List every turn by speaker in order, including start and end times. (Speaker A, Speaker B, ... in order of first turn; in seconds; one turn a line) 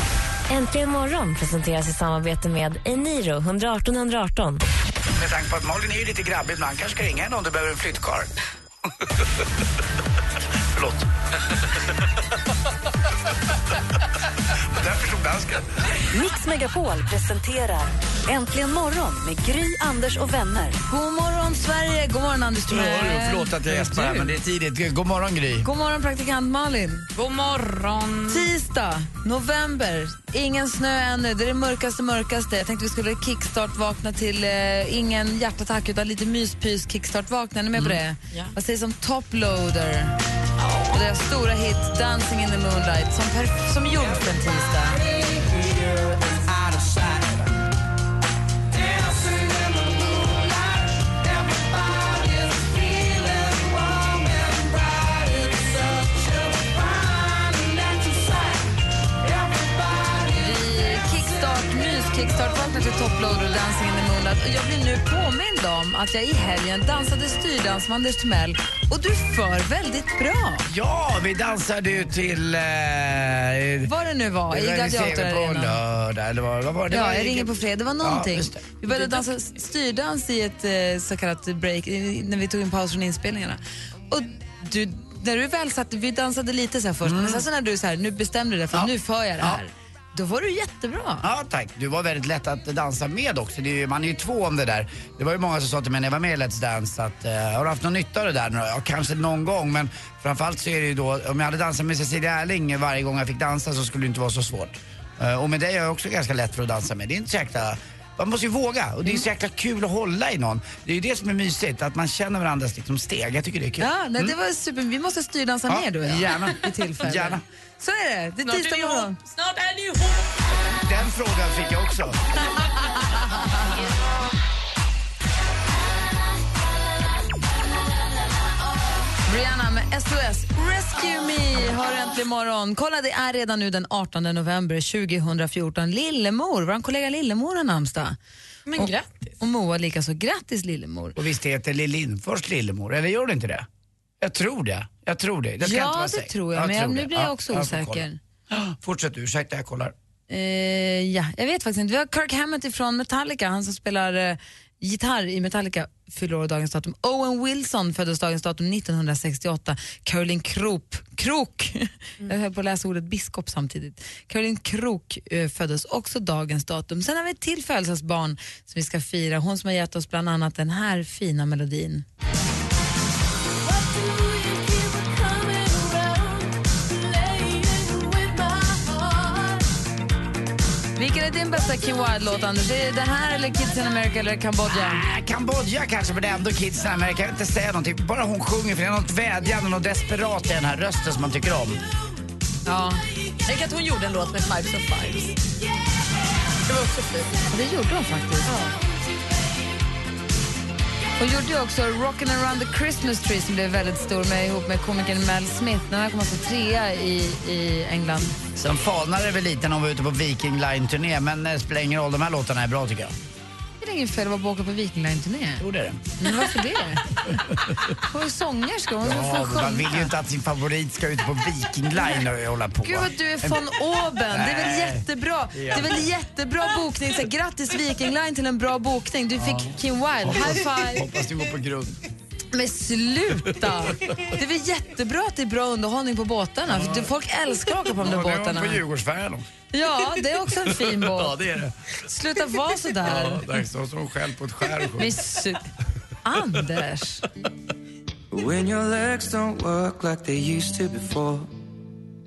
Speaker A: 0.5-4.6
Speaker B: 5.0-8.3
Speaker B: 10.7-11.1
Speaker B: 14.7-15.8
Speaker C: 16.1-20.8
Speaker D: 20.9-24.4
Speaker B: 22.7-25.7
Speaker D: 25.6-27.1
Speaker E: 27.1-28.5
Speaker D: 28.3-40.2
Speaker B: 37.7-38.0
Speaker D: 40.9-45.0
Speaker F: 45.1-47.5
Speaker F: 48.8-58.6
Speaker F: 59.2-60.4
Speaker D: 60.3-70.7
Speaker B: 70.7-73.9
Speaker D: 73.8-75.8
Speaker B: 74.5-78.7
Speaker D: 76.9-91.3
Speaker E: 78.9-79.3
Speaker B: 87.0-87.5
Speaker B: 88.7-89.6
Speaker B: 91.2-114.4
Speaker D: 113.8-119.2
Speaker B: 115.7-117.4
Speaker E: 118.4-120.3
Speaker B: 120.7-122.4
Speaker D: 122.8-123.5
Speaker D: 129.3-138.2
Speaker E: 138.7-139.3
Speaker D: 138.8-141.2
Speaker B: 141.2-143.7
Speaker B: 144.2-149.9
Speaker D: 145.6-148.2
Speaker D: 150.3-172.0
Speaker E: 173.8-179.6
Speaker D: 180.9-185.0
Speaker B: 184.7-191.8
Speaker D: 192.7-193.0
Speaker E: 193.4-195.5
Speaker E: 196.6-197.4
Speaker D: 197.5-198.7
Speaker E: 198.4-198.8
Speaker D: 201.2-208.4
Speaker B: 208.6-213.1
Speaker D: 213.8-215.7
Speaker B: 215.6-216.2
Speaker D: 216.2-217.4
Speaker B: 217.3-217.9
Speaker D: 217.9-220.1
Speaker B: 219.0-223.6
Speaker D: 222.8-231.1
Speaker B: 224.3-226.0
Speaker B: 229.4-232.0
Speaker D: 232.5-238.8
Speaker B: 236.7-237.1
Speaker B: 237.9-239.5
Speaker D: 239.7-241.4
Speaker B: 240.7-241.7
Speaker D: 242.0-243.5
Speaker B: 243.0-245.2
Speaker D: 245.0-245.6
Speaker D: 246.2-247.2
Speaker F: 248.3-251.5